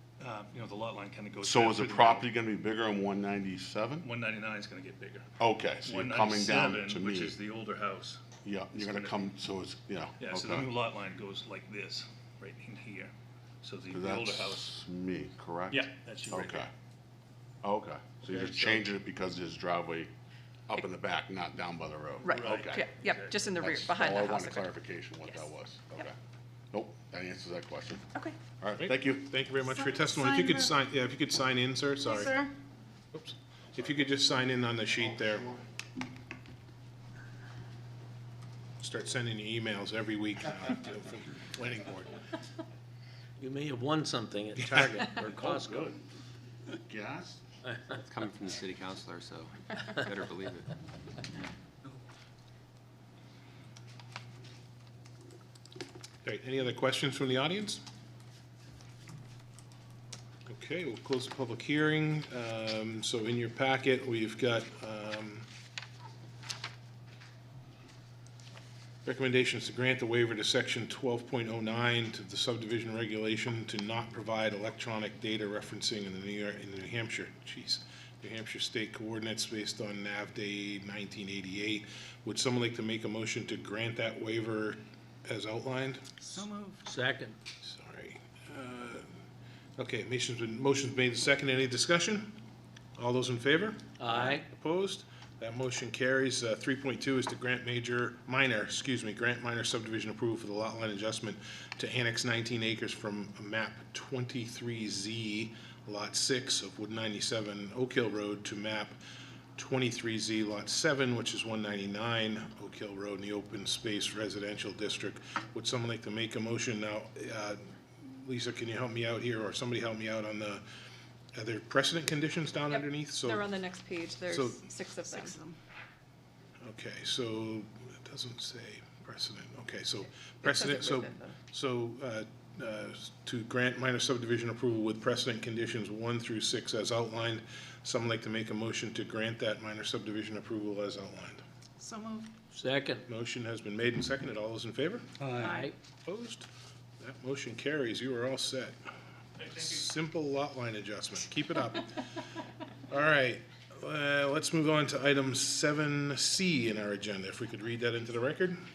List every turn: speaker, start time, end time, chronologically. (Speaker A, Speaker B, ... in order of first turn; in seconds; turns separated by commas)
Speaker A: 0.2-2.3, Speaker B: 1.4-4.1, Speaker A: 4.0-8.2, Speaker B: 5.4-7.4, Speaker B: 8.4-10.7, Speaker A: 8.7-9.3, Speaker A: 10.2-14.8, Speaker B: 13.9-16.7, Speaker A: 15.7-16.7, Speaker B: 17.6-20.1, Speaker A: 18.2-18.9, Speaker B: 20.7-22.8, Speaker A: 22.2-23.5, Speaker C: 22.2-24.7, Speaker B: 23.6-26.1, Speaker B: 26.7-28.1, Speaker B: 28.6-29.3, Speaker D: 28.8-32.4, Speaker E: 29.6-30.7, Speaker E: 32.1-32.5, Speaker D: 33.1-35.5, Speaker D: 38.8-42.2, Speaker F: 43.4-46.0, Speaker A: 45.3-45.9, Speaker B: 46.7-47.4, Speaker F: 47.6-48.0, Speaker G: 48.0-50.7, Speaker D: 56.2-57.8, Speaker D: 60.5-65.5, Speaker D: 69.0-86.1, Speaker F: 86.8-87.3, Speaker D: 87.6-89.0, Speaker D: 89.8-92.4, Speaker D: 93.0-108.9, Speaker F: 94.0-94.5, Speaker D: 109.5-120.6, Speaker D: 121.3-123.5, Speaker C: 122.7-125.3, Speaker D: 124.3-124.8, Speaker E: 125.1-125.5, Speaker D: 126.6-141.4, Speaker C: 130.4-131.3, Speaker E: 141.8-142.3, Speaker F: 142.5-143.0, Speaker D: 143.1-145.1, Speaker F: 145.2-145.7, Speaker E: 145.4-145.7, Speaker D: 146.1-146.5, Speaker D: 147.0-148.8, Speaker A: 149.4-149.8, Speaker D: 149.5-152.1, Speaker D: 152.9-158.6